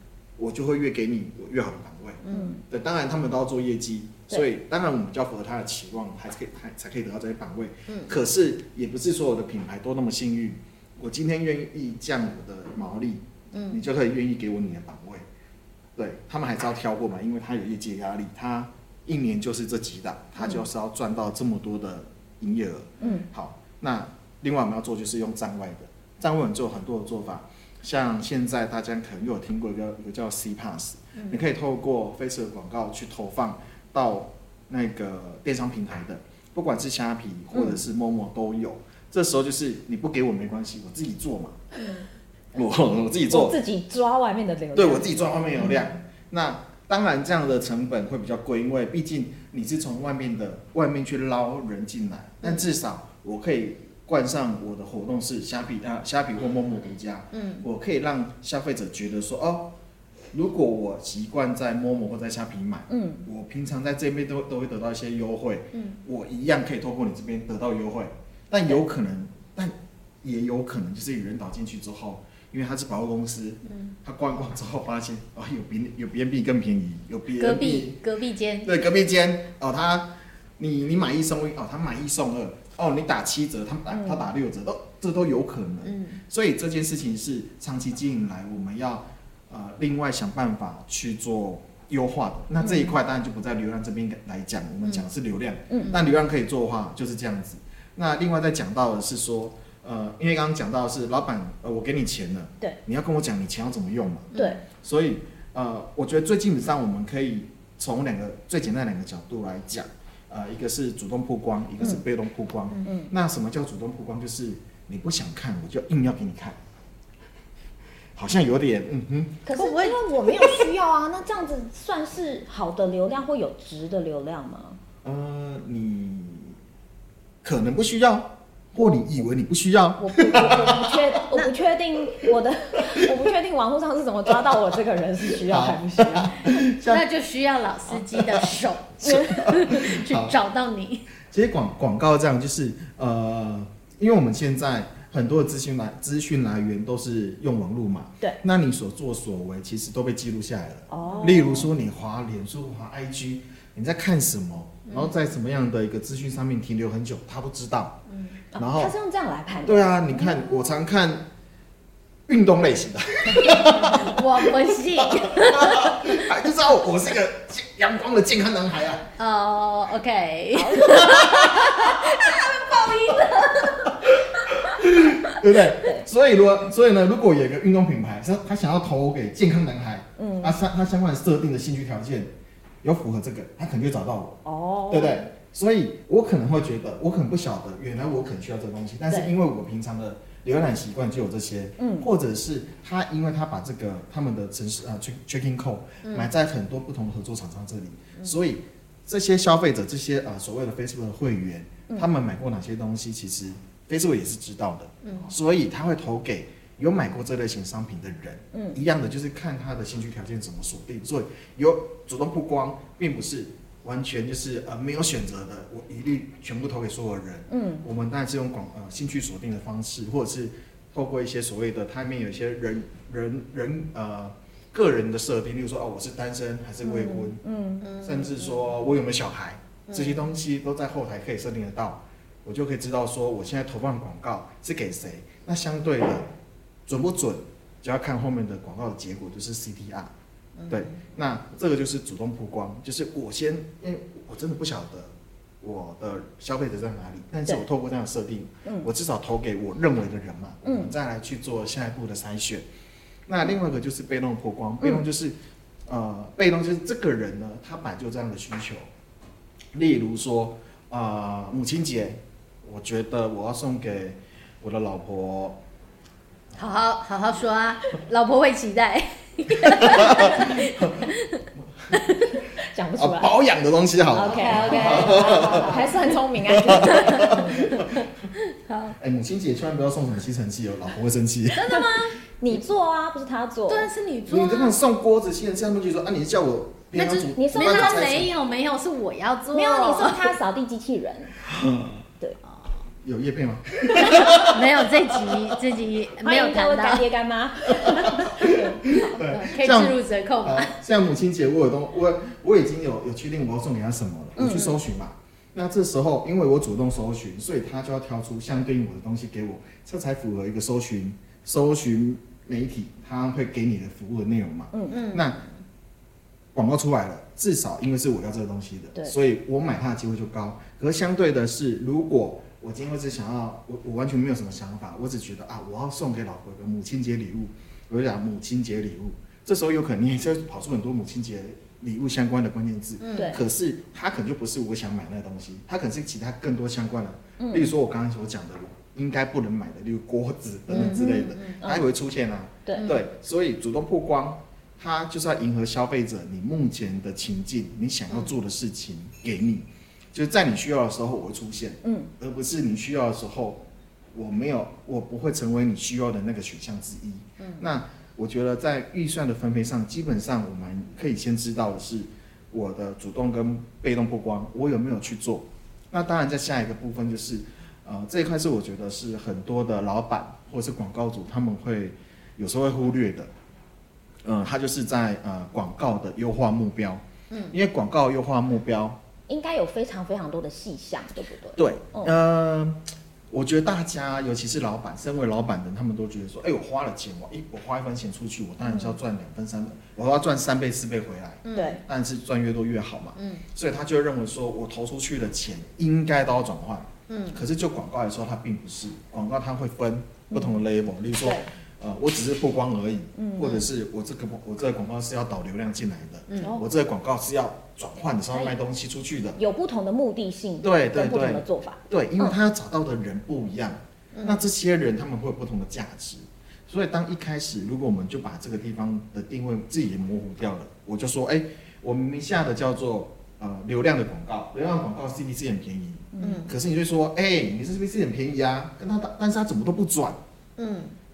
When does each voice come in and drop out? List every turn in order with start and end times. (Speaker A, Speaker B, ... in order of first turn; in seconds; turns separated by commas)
Speaker A: 0.4-15.3, Speaker B: 2.2-2.5, Speaker C: 2.3-2.6, Speaker B: 7.9-8.1, Speaker B: 13.5-13.8, Speaker A: 16.0-41.6, Speaker C: 23.0-23.3, Speaker A: 42.5-43.6, Speaker C: 43.3-45.7, Speaker A: 44.8-59.7, Speaker B: 57.3-57.6, Speaker A: 60.3-78.0, Speaker C: 62.9-63.3, Speaker B: 65.7-66.0, Speaker B: 73.7-74.0, Speaker B: 77.4-78.7, Speaker A: 78.6-116.6, Speaker C: 83.9-84.2, Speaker B: 85.8-86.2, Speaker B: 92.6-92.9, Speaker C: 95.7-96.0, Speaker B: 104.3-104.6, Speaker C: 104.3-104.6, Speaker C: 112.8-113.1, Speaker A: 118.2-119.5, Speaker C: 119.5-124.8, Speaker B: 119.6-120.6, Speaker A: 125.0-126.5, Speaker A: 127.4-131.0, Speaker C: 130.0-136.5, Speaker A: 135.4-137.0, Speaker B: 136.9-141.1, Speaker A: 138.2-140.3, Speaker C: 139.0-139.4, Speaker A: 141.3-158.0, Speaker C: 150.9-151.7, Speaker B: 151.1-151.3, Speaker B: 154.9-155.1, Speaker B: 158.1-158.4, Speaker C: 158.5-160.4, Speaker A: 158.6-158.9, Speaker A: 159.7-161.3, Speaker A: 162.3-169.1, Speaker B: 163.4-166.2, Speaker B: 169.2-174.7, Speaker C: 170.5-172.8, Speaker A: 171.1-171.8, Speaker A: 174.0-227.4, Speaker C: 180.2-180.6, Speaker C: 184.4-185.2, Speaker C: 191.8-192.1, Speaker B: 196.0-196.3, Speaker C: 208.5-208.8, Speaker C: 217.5-217.8, Speaker C: 226.8-227.9, Speaker B: 227.8-228.6, Speaker A: 228.0-236.3, Speaker B: 229.9-230.2, Speaker A: 236.9-240.1, Speaker B: 240.6-241.0, Speaker A: 240.7-252.7, Speaker C: 250.7-250.9, Speaker A: 253.3-258.9, Speaker A: 259.7-265.6, Speaker B: 266.6-271.4, Speaker A: 269.5-272.0, Speaker B: 271.9-272.4, Speaker C: 272.6-273.4, Speaker A: 273.0-278.1, Speaker C: 274.1-277.6, Speaker B: 274.2-276.0, Speaker B: 276.9-279.0, Speaker A: 279.0-281.9, Speaker C: 281.5-283.9, Speaker B: 283.7-284.8, Speaker A: 284.3-288.3, Speaker B: 287.0-290.3, Speaker C: 287.3-288.0, Speaker C: 289.5-291.4, Speaker A: 291.4-292.1, Speaker A: 293.0-295.6, Speaker B: 294.0-297.1, Speaker C: 296.2-299.0, Speaker A: 297.8-315.4, Speaker B: 298.5-300.7, Speaker C: 304.4-304.7, Speaker B: 304.5-304.8, Speaker C: 314.7-315.0, Speaker B: 314.9-315.5, Speaker A: 316.5-373.3, Speaker B: 333.0-333.4, Speaker C: 337.4-337.7, Speaker C: 340.7-341.9, Speaker B: 340.7-341.1, Speaker B: 342.8-343.0, Speaker C: 351.8-352.1, Speaker B: 357.4-357.7, Speaker A: 374.2-379.0, Speaker B: 377.3-377.6, Speaker C: 379.3-382.1, Speaker A: 381.6-409.4, Speaker B: 391.4-391.8, Speaker C: 391.6-391.8, Speaker B: 393.2-393.4, Speaker B: 397.1-397.4, Speaker C: 400.3-400.6, Speaker C: 401.2-401.5, Speaker C: 403.2-403.6, Speaker B: 406.3-406.6, Speaker C: 409.4-412.4, Speaker A: 410.6-430.2, Speaker B: 414.1-414.4, Speaker C: 426.2-426.5, Speaker B: 426.2-426.5, Speaker B: 430.6-431.0